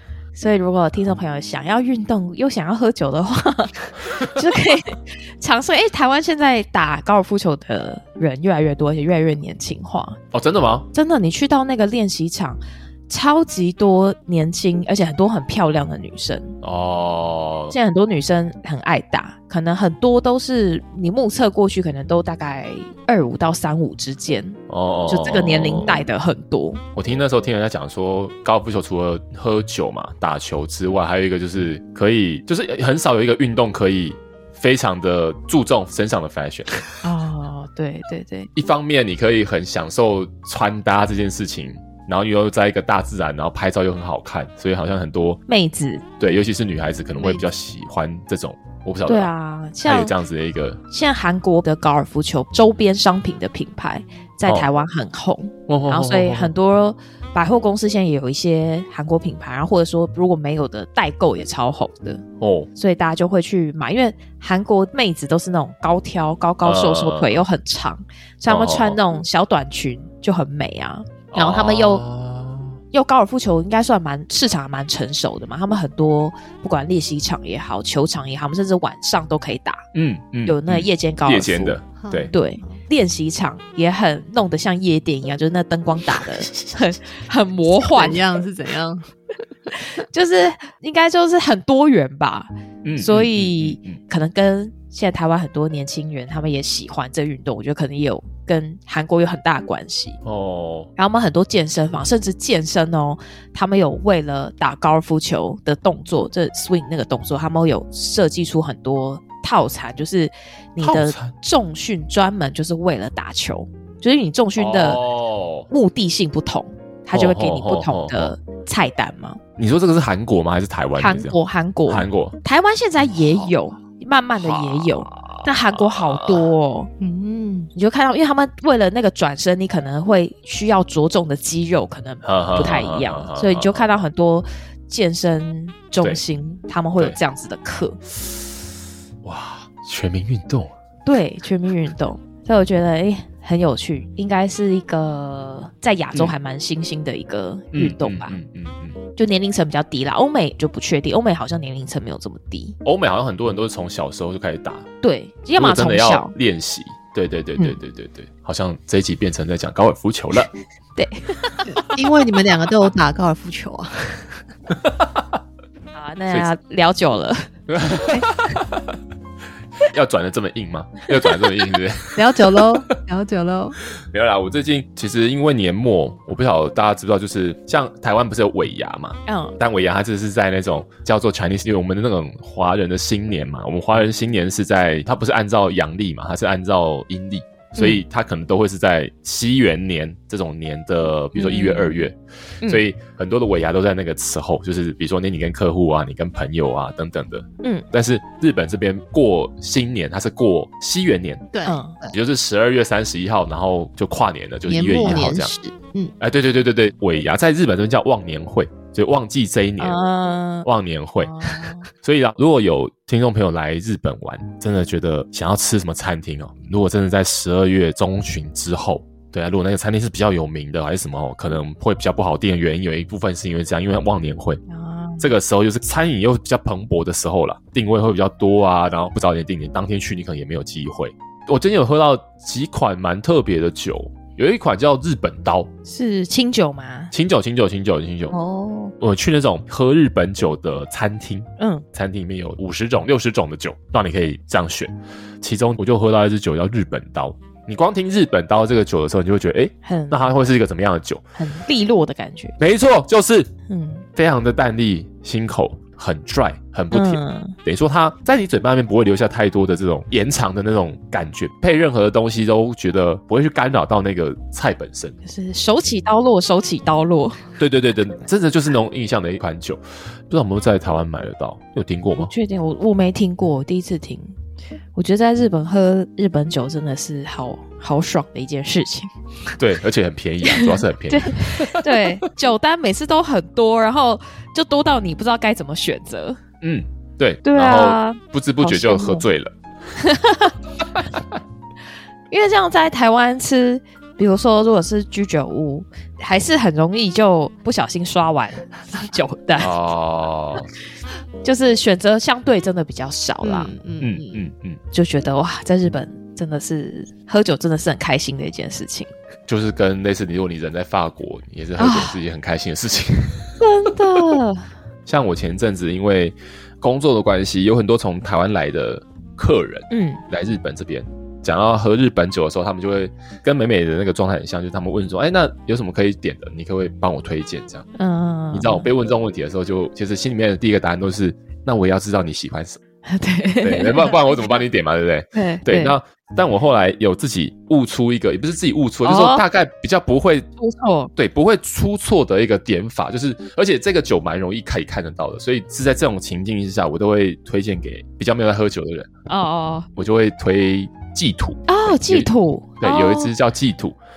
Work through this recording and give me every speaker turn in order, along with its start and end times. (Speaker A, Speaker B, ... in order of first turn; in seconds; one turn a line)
Speaker A: 0.3-10.2
Speaker B: 10.3-10.9
Speaker A: 10.9-16.6
Speaker B: 16.6-17.8
Speaker A: 17.7-26.8
Speaker B: 24.7-26.1
Speaker B: 26.9-36.8
Speaker A: 37.0-38.5
Speaker B: 38.6-45.4
Speaker A: 45.5-46.0
Speaker B: 46.2-49.3
Speaker A: 49.1-50.1
Speaker B: 49.9-50.8
Speaker A: 50.9-62.2
Speaker B: 55.7-56.5
Speaker B: 62.4-62.7
Speaker A: 62.8-72.0
Speaker B: 66.6-67.4
Speaker B: 68.5-69.0
Speaker B: 71.3-72.8
Speaker A: 72.9-79.8
Speaker B: 80.0-82.3
Speaker A: 80.5-81.8
Speaker C: 82.0-82.7
Speaker A: 82.3-88.2
Speaker C: 87.8-89.1
Speaker A: 89.8-100.2
Speaker B: 92.8-94.0
Speaker B: 100.2-100.9
Speaker A: 101.0-115.0
Speaker B: 110.8-111.3
Speaker B: 114.6-115.7
Speaker A: 115.7-119.4
Speaker B: 117.1-118.3
Speaker B: 119.6-121.4
Speaker A: 121.0-126.9
Speaker B: 121.9-122.4
Speaker B: 123.1-123.5
Speaker B: 124.4-126.5
Speaker C: 127.0-127.7
Speaker A: 127.7-138.0
Speaker B: 132.2-133.8
Speaker B: 139.2-140.7
Speaker A: 141.1-148.4
Speaker B: 147.7-149.0
Speaker A: 149.2-152.8
Speaker B: 152.8-154.9
Speaker A: 155.0-156.3
Speaker B: 155.6-160.5
Speaker A: 161.0-162.0
Speaker C: 161.7-164.3
Speaker A: 165.9-167.5
Speaker B: 167.7-168.3
Speaker B: 169.8-172.7
Speaker C: 172.2-173.8
Speaker B: 174.0-201.5
Speaker A: 179.3-179.6
Speaker A: 191.4-191.8
Speaker C: 201.5-202.1
Speaker A: 201.7-202.0
Speaker B: 202.1-205.5
Speaker C: 204.7-206.1
Speaker B: 206.2-210.0
Speaker A: 209.8-210.7
Speaker B: 210.6-224.6
Speaker A: 211.2-211.9
Speaker A: 224.7-225.3
Speaker B: 225.2-235.7
Speaker A: 235.8-237.1
Speaker B: 237.1-238.3
Speaker A: 238.3-238.9
Speaker B: 239.0-251.2
Speaker A: 241.6-241.9
Speaker A: 249.8-250.2
Speaker A: 251.4-252.6
Speaker B: 252.6-253.5
Speaker A: 253.7-254.1
Speaker B: 254.2-265.2
Speaker A: 256.9-257.6
Speaker A: 265.2-267.4
Speaker B: 267.6-272.3
Speaker A: 272.2-274.4
Speaker A: 274.9-279.1
Speaker B: 279.6-282.2
Speaker A: 280.5-286.4
Speaker B: 286.6-289.6
Speaker A: 287.4-289.2
Speaker A: 290.0-290.5
Speaker A: 292.3-299.7
Speaker B: 299.6-300.7
Speaker A: 301.4-303.7
Speaker C: 303.4-304.4
Speaker B: 304.0-304.8
Speaker A: 304.9-309.1
Speaker B: 309.5-313.5
Speaker A: 311.8-312.2
Speaker A: 313.6-314.7
Speaker B: 315.1-327.9
Speaker A: 319.9-320.2
Speaker A: 328.0-328.9
Speaker B: 328.5-332.8
Speaker A: 333.1-334.3
Speaker B: 333.6-340.5
Speaker A: 335.3-336.0
Speaker A: 339.0-339.4
Speaker A: 340.6-341.1
Speaker B: 341.2-349.1
Speaker A: 349.3-349.9
Speaker B: 350.0-354.0
Speaker A: 351.7-353.3